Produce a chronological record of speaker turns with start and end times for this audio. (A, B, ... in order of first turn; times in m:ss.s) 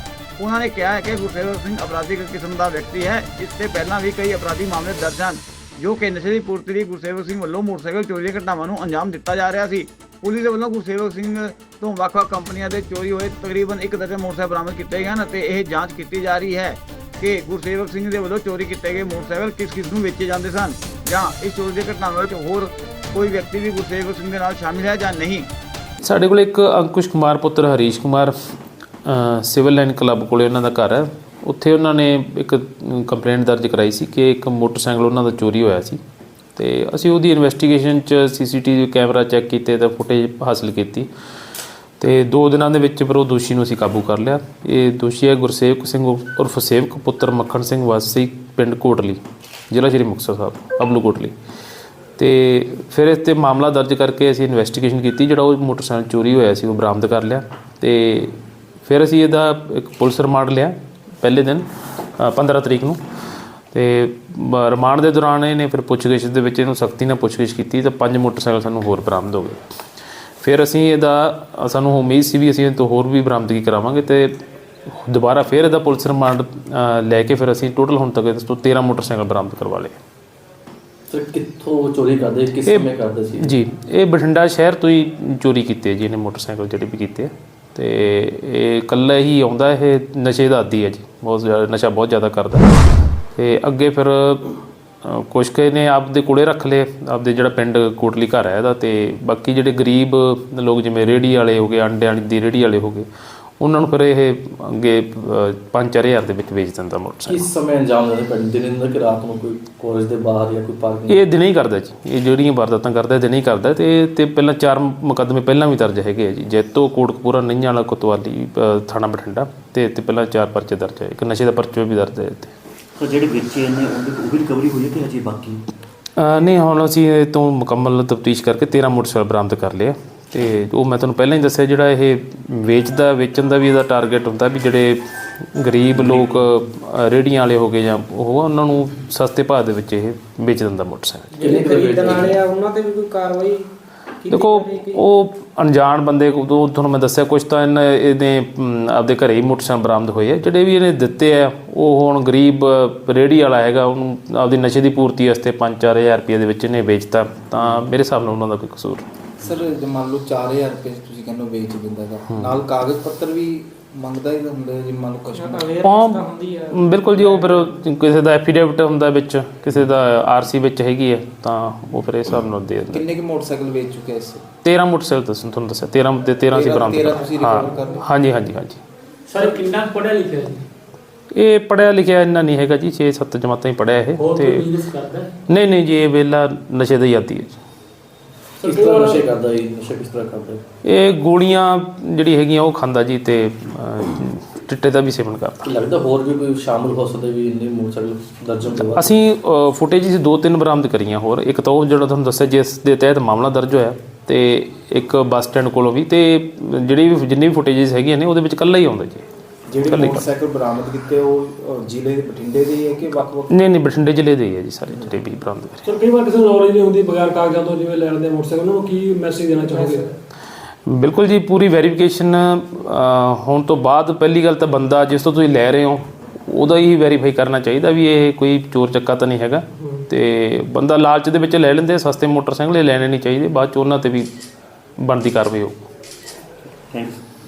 0:00.4-0:25.5 A
0:26.0-0:28.4 B
0:29.0-0:36.0 B
0:36.6-0:41.1 B
0:42.0-0:49.2 B
0:49.7-0:51.3 B
0:52.2-1:01.7 B
1:02.2-1:03.0 B
1:03.7-1:09.6 B
1:10.4-1:14.3 B
1:14.9-1:20.0 B
1:21.1-1:23.6 C
1:22.7-1:32.7 B
1:33.4-1:43.1 B
1:43.6-1:47.5 B
1:47.3-1:51.2 C
1:51.1-2:02.5 B
2:03.0-2:05.6 D
2:06.2-2:21.5 B
2:16.0-2:16.5 C
2:21.4-2:22.4 C
2:21.5-2:23.6 E
2:21.5-2:23.4 F
2:24.2-2:25.0 E
2:24.3-2:39.1 B
2:39.4-2:45.8 G
2:42.3-2:42.6 B
2:45.4-2:47.5 E
2:45.8-2:53.1 B
2:52.9-2:54.4 G
2:54.6-2:58.8 B
2:56.5-2:58.0 G
2:59.3-3:00.6 F
3:01.3-3:04.7 B
3:04.2-3:05.3 F
3:05.5-3:07.6 B
3:08.6-3:10.6 C
3:08.6-3:09.2 E
3:10.8-3:15.7 B
3:15.6-3:19.2 C
3:18.8-3:29.2 B
3:29.7-3:33.6 G
3:29.8-3:30.3 B
3:33.5-3:35.8 B
3:35.8-3:40.1 E
3:40.9-3:54.3 B
3:55.0-3:55.8 B
3:56.9-3:57.2 D